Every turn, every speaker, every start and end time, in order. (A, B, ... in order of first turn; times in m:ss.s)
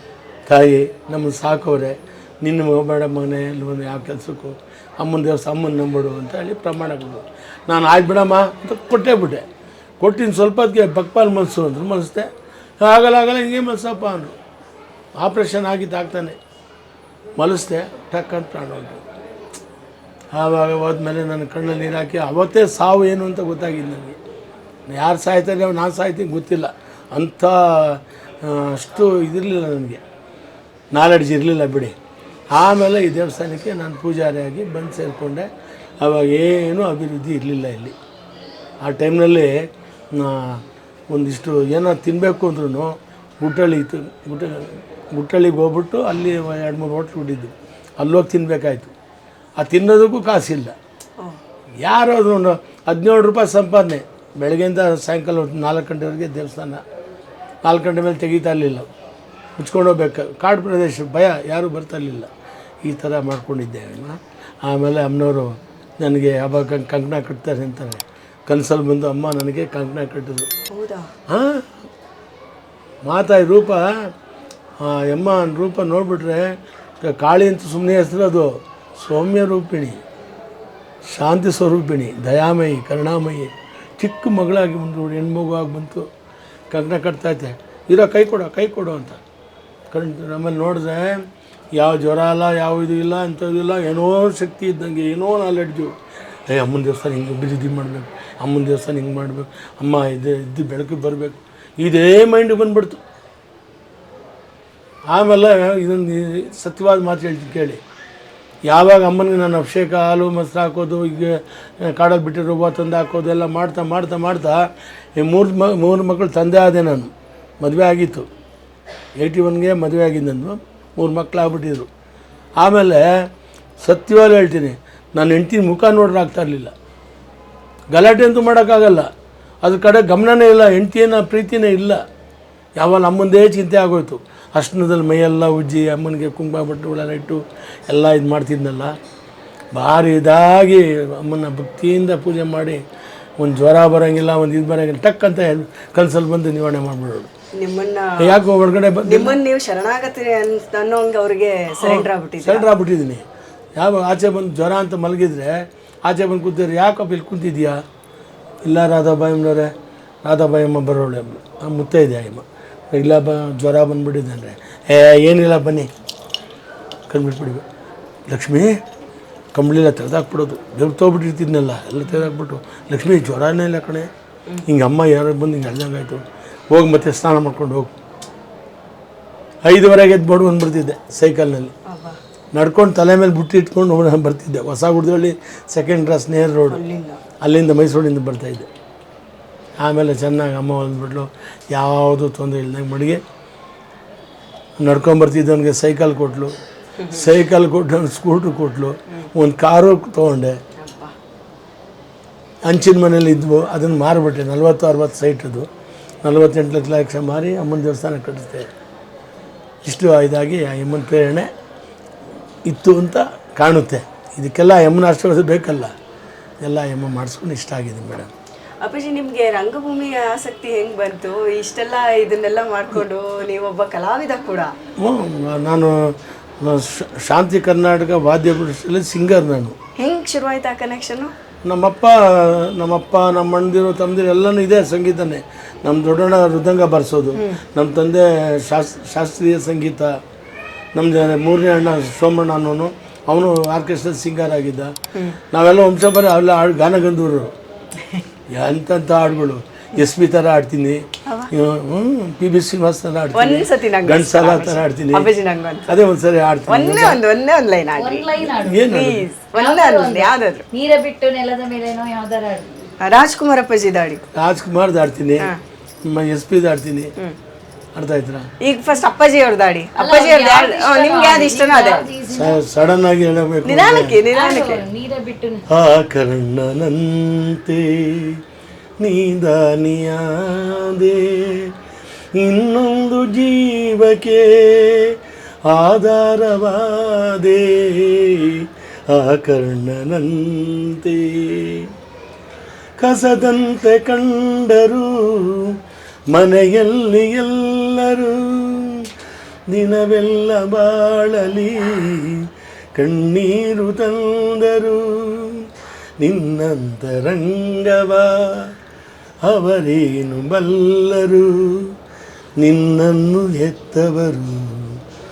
0:00.5-0:09.4 A
0:10.0-0:12.3 A
0:12.8-0:14.3 A
0:15.2-0:16.4 A
0:17.4-0:19.0 A
0:20.3-0:24.2 A
0:24.9-0:30.0 A
0:30.9-0:31.9 A
0:32.5-0:35.5 A
0:36.0-0:38.0 A
0:38.8-0:39.5 A
0:40.1-0:48.9 A
0:49.6-0:50.7 A
0:51.8-0:56.8 A
0:57.6-0:58.9 A
0:59.6-1:02.3 A
1:02.8-1:10.5 A
1:10.7-1:11.1 B
1:11.3-1:11.6 A
1:13.0-1:14.1 A
1:14.8-1:20.0 A
1:21.0-1:26.1 A
1:26.7-1:29.2 A
1:29.9-1:35.9 A
1:36.5-1:43.0 A
1:45.1-1:47.8 A
1:48.7-1:58.3 A
1:59.2-2:01.9 A
2:02.6-2:03.3 A
2:03.8-2:06.7 A
2:07.9-2:09.1 A
2:09.6-2:12.0 A
2:12.8-2:18.9 A
2:19.7-2:22.8 A
2:23.4-2:27.3 A
2:27.6-2:28.4 B
2:28.2-2:29.4 A
2:29.0-2:32.7 B
2:31.8-2:33.2 A
2:33.8-2:37.8 A
2:38.6-2:39.7 A
2:40.2-2:45.9 A
2:47.1-2:47.6 A
2:48.3-2:48.7 A
2:49.5-2:54.1 A
2:54.6-2:57.9 A
2:59.6-3:01.7 A
3:01.8-3:02.2 B
3:02.5-3:06.8 A
3:06.7-3:07.2 B
3:07.4-3:08.7 A
3:09.8-3:13.2 A
3:14.8-3:16.5 A
3:17.0-3:17.3 B
3:17.1-3:20.6 A
3:20.8-3:21.1 B
3:22.6-3:25.7 A
3:26.2-3:28.7 A
3:29.8-3:31.5 A
3:32.7-3:35.9 A
3:36.6-3:38.3 A
3:38.8-3:44.7 B
3:45.0-3:46.0 A
3:46.6-3:49.8 A
3:50.0-3:51.3 B
3:51.6-4:00.1 A
3:57.3-3:57.6 B
4:00.9-4:04.9 A
4:05.5-4:07.5 A
4:08.5-4:15.3 A
4:11.2-4:11.5 B
4:13.3-4:15.9 B
4:15.9-4:17.2 A
4:16.7-4:20.7 B
4:18.0-4:18.9 C
4:18.5-4:19.2 A
4:19.5-4:22.8 C
4:23.0-4:24.2 B
4:24.3-4:25.5 A
4:26.0-4:27.1 A
4:27.9-4:28.5 A
4:28.6-4:32.1 B
4:30.0-4:32.6 C
4:32.3-4:34.2 A
4:33.6-4:34.8 B
4:34.3-4:35.6 C
4:35.7-4:38.4 A
4:39.0-4:41.7 A
4:42.3-4:51.9 A
4:53.0-4:55.8 A
4:56.3-4:59.1 A
4:59.7-5:05.7 A
5:06.2-5:08.7 A
5:09.4-5:11.9 A
5:12.6-5:15.0 A